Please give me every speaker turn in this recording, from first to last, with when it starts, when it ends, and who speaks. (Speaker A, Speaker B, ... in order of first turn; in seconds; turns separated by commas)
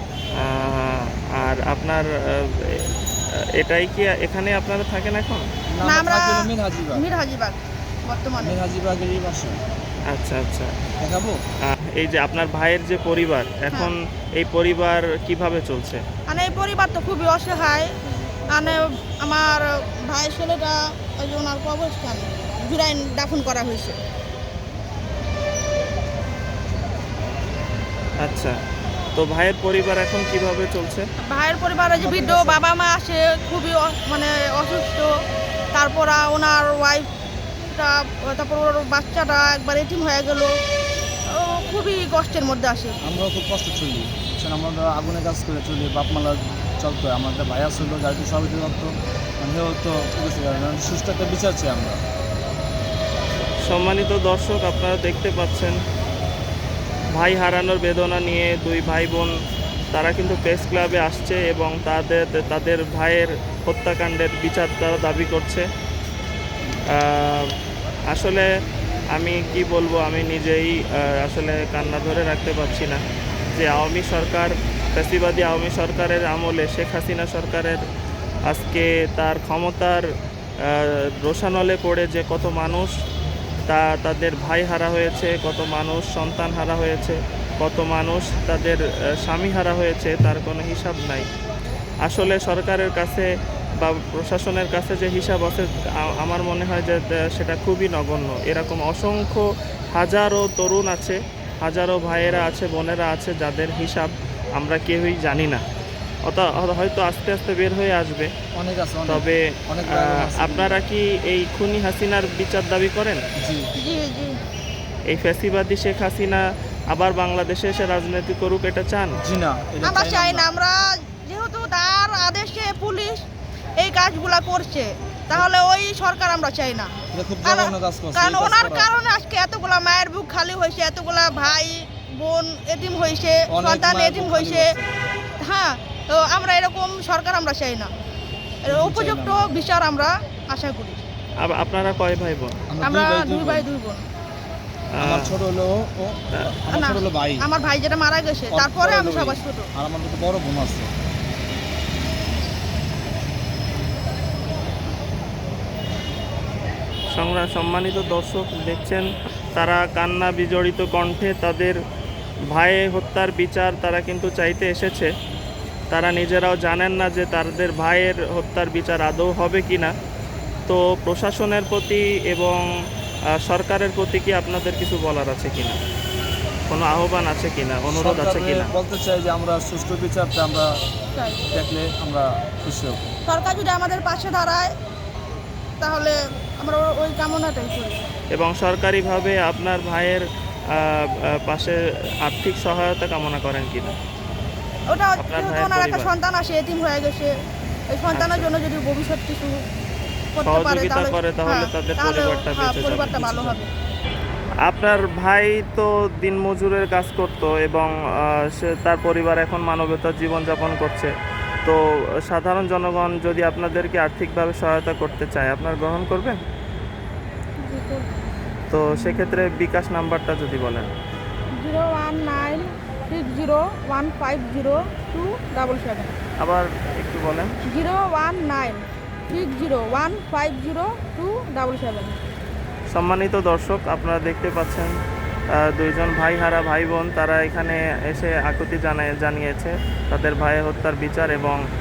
Speaker A: 0.3-2.9, Speaker A: 3.6-5.5, Speaker B: 5.7-7.0, Speaker C: 5.8-8.6, Speaker B: 8.4-9.6, Speaker A: 10.1-10.7, Speaker B: 11.0-11.4, Speaker A: 11.6-16.0, Speaker C: 16.3-17.9, Speaker B: 18.4-18.8, Speaker C: 18.5-23.9, Speaker A: 28.2-28.5, Speaker A: 29.1-31.0, Speaker C: 31.3-35.1, Speaker B: 31.9-32.6, Speaker C: 35.7-37.1, Speaker C: 37.7-40.5, Speaker C: 41.3-43.0, Speaker B: 43.0-52.0, Speaker A: 53.6-55.8, Speaker A: 57.1-59.3, Speaker A: 59.9-65.6, Speaker A: 66.9-67.5, Speaker A: 68.1-68.5, Speaker A: 69.1-73.0, Speaker A: 73.5-77.8, Speaker A: 78.5-80.0, Speaker A: 80.6-82.9, Speaker A: 83.7-91.3, Speaker A: 92.0-93.3, Speaker A: 93.8-105.6, Speaker A: 106.2-108.3, Speaker B: 108.5-110.8, Speaker A: 109.0-113.2, Speaker B: 113.4-113.7, Speaker C: 113.8-114.3, Speaker A: 115.1-119.2, Speaker B: 119.2-120.5, Speaker C: 119.8-123.2, Speaker C: 123.8-126.9, Speaker B: 127.1-128.9, Speaker C: 127.4-134.7, Speaker B: 133.5-134.9, Speaker C: 135.4-137.9, Speaker C: 138.6-141.0, Speaker B: 138.7-139.5, Speaker A: 141.4-142.6, Speaker B: 142.7-143.7, Speaker C: 142.8-144.0, Speaker A: 144.9-145.3, Speaker B: 145.0-147.4, Speaker C: 146.7-149.7, Speaker B: 148.5-150.9, Speaker A: 157.1-161.8, Speaker A: 162.5-165.1, Speaker A: 165.9-169.9, Speaker A: 170.7-172.6, Speaker A: 173.3-175.8, Speaker A: 176.7-178.7, Speaker B: 177.9-180.7, Speaker C: 181.2-181.4, Speaker B: 181.5-183.0, Speaker C: 183.3-184.7, Speaker C: 185.8-188.0, Speaker A: 188.3-193.9, Speaker C: 194.9-197.3, Speaker A: 195.2-196.1, Speaker C: 197.9-199.5, Speaker A: 198.1-198.5, Speaker C: 200.3-203.7, Speaker A: 200.4-203.6, Speaker A: 204.6-211.1, Speaker A: 211.6-216.4, Speaker C: 217.6-218.1, Speaker A: 218.7-220.9, Speaker C: 218.9-219.4, Speaker C: 221.6-226.1, Speaker A: 226.4-227.5, Speaker C: 227.7-232.2, Speaker A: 232.9-234.9, Speaker A: 235.5-241.6